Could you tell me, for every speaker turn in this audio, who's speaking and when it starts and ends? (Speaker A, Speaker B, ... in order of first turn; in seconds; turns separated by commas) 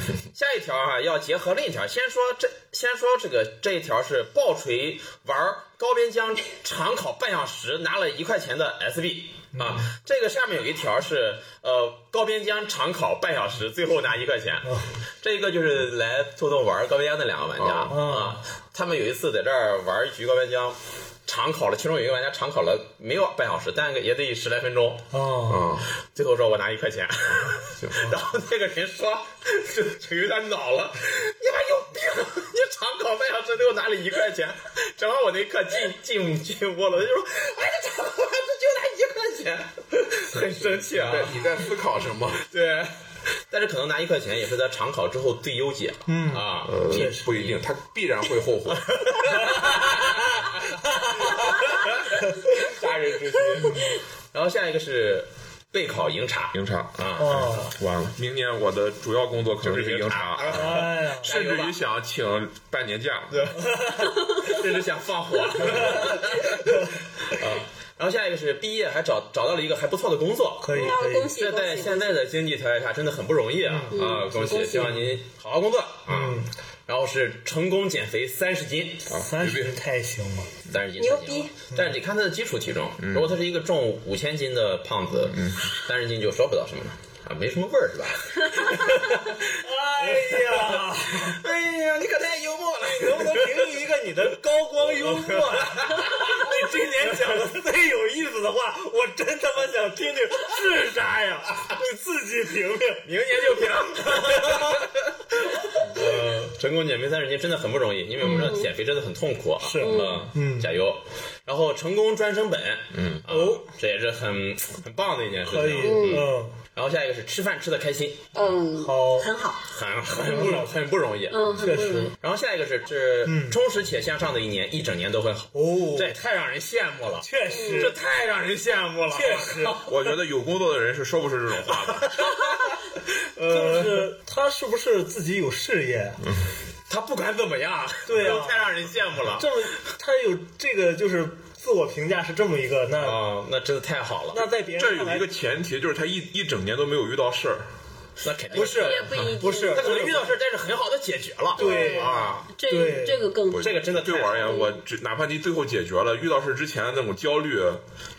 Speaker A: 0.3-25.1, Speaker B: 9.5-9.8, Speaker C: 17.6-18.0, Speaker B: 17.9-18.4, Speaker B: 25.1-25.8, Speaker C: 25.5-25.9, Speaker A: 26.0-41.5, Speaker C: 27.8-28.1, Speaker C: 40.9-42.4, Speaker A: 42.4-47.6, Speaker B: 46.1-47.3, Speaker C: 46.6-49.2, Speaker A: 48.9-57.5, Speaker B: 49.4-50.0, Speaker C: 56.5-63.4, Speaker B: 57.2-57.7, Speaker A: 59.6-61.8, Speaker B: 60.5-61.3, Speaker A: 63.3-79.1, Speaker B: 63.7-64.0, Speaker B: 65.6-66.9, Speaker B: 70.6-71.3, Speaker D: 70.7-72.2, Speaker B: 73.6-75.0, Speaker D: 73.9-75.1, Speaker B: 76.1-76.5, Speaker C: 79.1-79.7, Speaker B: 79.1-80.5, Speaker A: 80.7-93.9, Speaker D: 81.0-81.5, Speaker C: 83.0-83.3, Speaker B: 89.5-91.4, Speaker B: 92.8-104.9, Speaker A: 95.0-96.5, Speaker A: 103.0-118.3, Speaker D: 108.2-108.7, Speaker B: 109.6-110.7, Speaker D: 109.8-110.2, Speaker C: 112.9-113.2, Speaker B: 113.3-113.6, Speaker B: 115.5-116.5, Speaker D: 115.8-116.2, Speaker D: 118.3-119.6, Speaker B: 118.8-119.3, Speaker A: 119.6-121.7, Speaker B: 120.2-120.7, Speaker D: 121.3-122.1, Speaker B: 121.6-122.1, Speaker A: 122.2-129.9, Speaker B: 123.2-123.6, Speaker B: 125.5-126.2, Speaker B: 127.2-128.0, Speaker D: 127.5-127.9, Speaker B: 129.1-130.0, Speaker C: 129.8-132.2, Speaker A: 132.0-134.1, Speaker B: 133.4-136.2, Speaker A: 136.9-139.7, Speaker B: 138.1-138.7, Speaker B: 139.3-143.2, Speaker A: 143.0-144.5, Speaker B: 144.3-145.3, Speaker C: 144.7-147.7, Speaker A: 148.2-152.5, Speaker B: 148.5-150.3, Speaker D: 148.6-150.0, Speaker B: 151.6-153.2, Speaker D: 151.6-153.8, Speaker C: 153.5-157.8, Speaker A: 153.6-154.7, Speaker D: 154.4-154.7